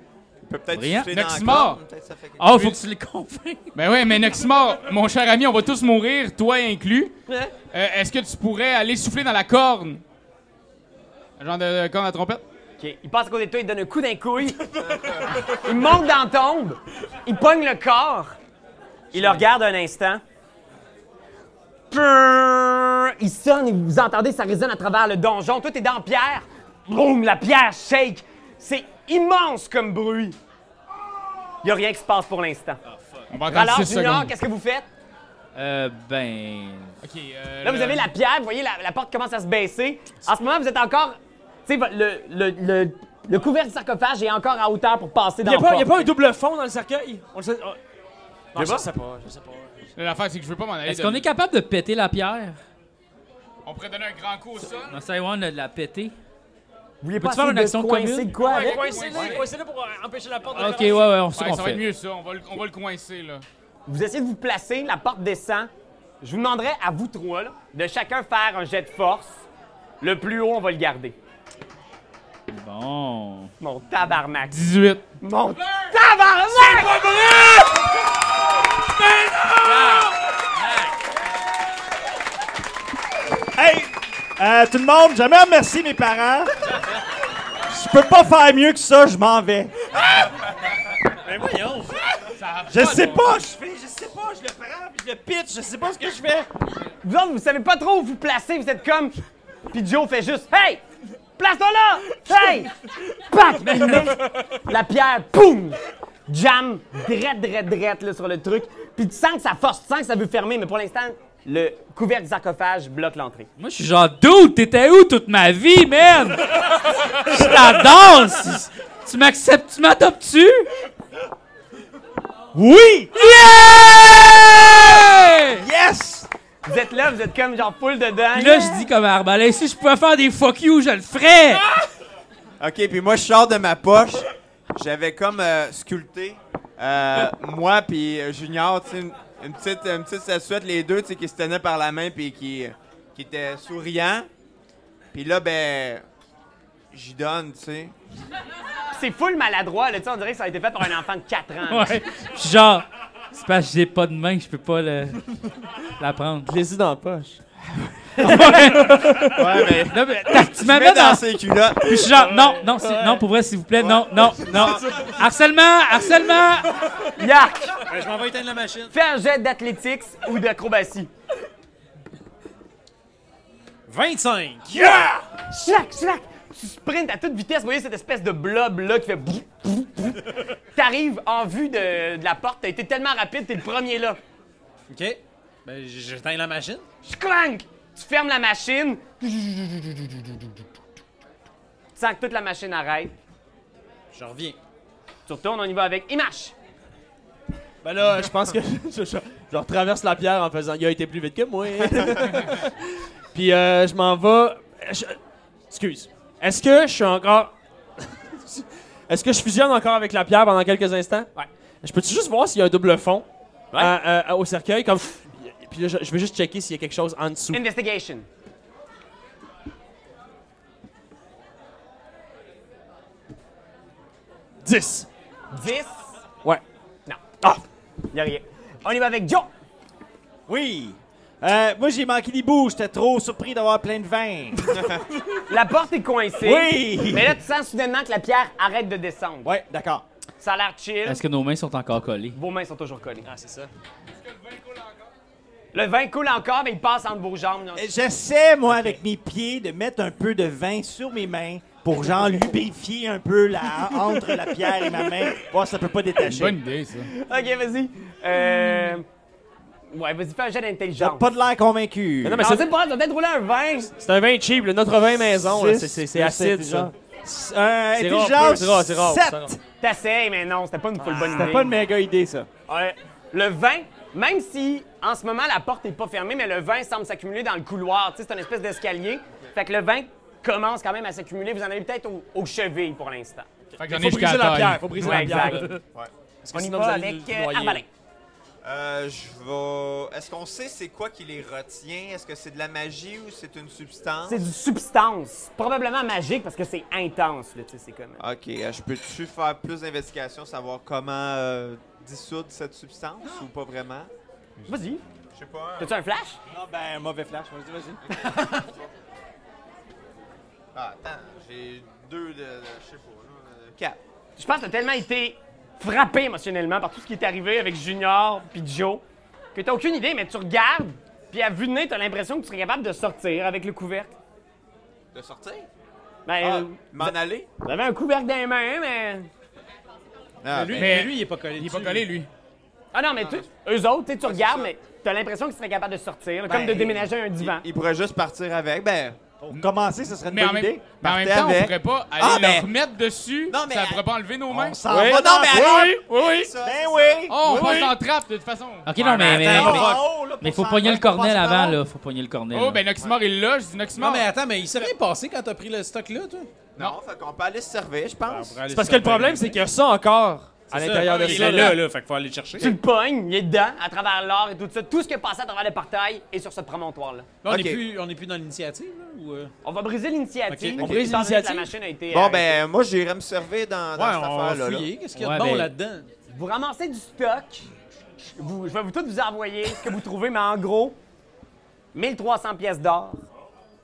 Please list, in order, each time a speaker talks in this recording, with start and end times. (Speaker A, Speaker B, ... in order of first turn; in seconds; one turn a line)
Speaker A: 0.4-2.7
Speaker B: 0.7-1.1
Speaker C: 1.1-1.8
Speaker B: 2.4-3.7
Speaker C: 3.7-7.1
Speaker D: 7.3-7.5
Speaker C: 7.7-10.0
Speaker C: 11.4-12.4
Speaker D: 12.8-14.7
Speaker A: 14.9-15.4
Speaker D: 15.4-18.4
Speaker D: 19.1-20.2
Speaker D: 21.9-30.4
Speaker D: 31.6-32.8
Speaker C: 33.3-34.3
Speaker D: 33.5-34.9
Speaker B: 35.5-36.9
Speaker C: 37.0-38.1
Speaker D: 37.6-46.1
Speaker E: 45.4-47.8
Speaker E: 48.5-49.9
Speaker D: 48.5-48.9
Speaker C: 50.0-51.2
Speaker B: 50.9-52.6
Speaker C: 53.6-55.0
Speaker B: 54.9-56.1
Speaker D: 57.0-59.3
Speaker B: 57.1-58.3
Speaker E: 58.4-61.1
Speaker C: 58.5-59.5
Speaker B: 60.5-61.8
Speaker C: 61.3-63.4
Speaker D: 63.9-65.7
Speaker D: 66.2-69.4
Speaker D: 70.0-71.1
Speaker B: 72.5-73.5
Speaker D: 73.6-74.6
Speaker C: 74.5-75.0
Speaker D: 75.2-77.1
Speaker E: 76.8-77.7
Speaker E: 78.9-80.1
Speaker F: 83.5-86.5
Speaker F: 87.7-89.7
Speaker G: 91.2-92.0
Speaker C: 92.3-93.3
Speaker F: 92.7-96.5
Speaker D: 97.0-99.2
Speaker D: 99.7-100.8
Speaker D: 101.4-113.5
Speaker B: 113.6-116.6
Speaker B: 117.1-120.7
Speaker F: 122.5-123.1
Speaker B: 123.1-125.7
Speaker F: 125.5-126.3
Speaker D: 126.6-128.8
Speaker B: 128.3-131.6
Speaker A: 132.6-144.3
Speaker A: 145.1-146.0
Speaker A: 146.9-147.9
Speaker D: 148.9-152.0
Speaker B: 151.7-155.3
Speaker B: 156.0-156.5
Speaker E: 156.4-157.4
Speaker B: 158.2-166.8
Speaker E: 158.9-159.2
Speaker A: 159.3-162.0
Speaker E: 162.0-163.2
Speaker A: 163.8-164.8
Speaker D: 167.2-167.8
Speaker G: 167.8-168.9
Speaker D: 168.9-171.1
Speaker G: 173.9-174.9
Speaker D: 174.7-184.2
Speaker G: 184.9-186.8
Speaker D: 187.0-190.5
Speaker D: 191.9-193.1
Speaker G: 194.1-194.6
Speaker D: 195.3-196.5
Speaker E: 197.8-202.7
Speaker E: 203.3-205.2
Speaker E: 205.7-207.5
Speaker E: 208.4-211.3
Speaker E: 211.8-217.6
Speaker D: 217.5-218.3
Speaker E: 224.6-225.1
Speaker D: 225.5-226.0
Speaker D: 228.1-229.5
Speaker F: 230.5-234.6
Speaker D: 235.5-239.6
Speaker F: 236.4-237.4
Speaker F: 239.4-240.0
Speaker D: 240.4-241.2
Speaker B: 241.1-242.4
Speaker D: 242.3-243.2
Speaker E: 243.2-243.7
Speaker D: 245.7-247.9
Speaker F: 247.7-256.6
Speaker D: 252.2-252.5
Speaker C: 256.2-257.1
Speaker D: 257.1-259.0
Speaker D: 259.9-261.3
Speaker F: 260.9-262.5
Speaker E: 262.2-262.7
Speaker D: 262.4-263.9
Speaker E: 263.9-266.9
Speaker F: 265.4-269.6
Speaker E: 267.9-269.6
Speaker D: 269.8-271.7
Speaker E: 271.0-271.6
Speaker F: 271.1-272.5
Speaker D: 272.7-283.5
Speaker E: 283.8-285.8
Speaker C: 283.8-285.4
Speaker D: 285.0-285.7
Speaker E: 286.4-287.8
Speaker D: 286.5-287.9
Speaker A: 288.6-294.4
Speaker D: 294.2-298.2
Speaker A: 298.2-304.1
Speaker D: 304.7-305.0
Speaker A: 305.3-305.9
Speaker D: 305.8-306.4
Speaker F: 306.5-308.3
Speaker A: 308.0-308.9
Speaker A: 310.7-314.0
Speaker D: 314.4-319.0
Speaker D: 319.5-324.1
Speaker A: 325.1-325.7
Speaker D: 326.2-329.3
Speaker A: 326.4-327.5
Speaker A: 330.4-331.1
Speaker G: 330.5-332.1
Speaker C: 330.8-332.3
Speaker D: 332.9-337.6
Speaker A: 333.2-333.4
Speaker A: 334.2-334.7
Speaker A: 336.5-339.2
Speaker F: 339.4-340.8
Speaker C: 340.2-344.8
Speaker A: 341.0-342.7
Speaker A: 343.5-344.1
Speaker F: 344.5-346.0
Speaker E: 344.9-346.5
Speaker A: 344.9-347.3
Speaker F: 346.6-347.7
Speaker C: 347.3-349.8
Speaker E: 347.4-347.9
Speaker B: 348.9-352.8
Speaker G: 349.0-350.0
Speaker F: 349.4-351.8
Speaker C: 352.5-354.3
Speaker G: 353.9-356.5
Speaker A: 356.8-358.6
Speaker G: 358.2-359.6
Speaker E: 358.7-361.8
Speaker G: 360.7-362.8
Speaker D: 362.6-367.3
Speaker G: 367.4-369.5
Speaker A: 367.4-367.8
Speaker D: 369.6-372.6
Speaker G: 370.5-370.9
Speaker E: 370.8-371.7
Speaker A: 372.1-374.9
Speaker G: 373.9-376.1
Speaker B: 375.1-375.7
Speaker D: 376.3-381.0
Speaker D: 381.9-383.2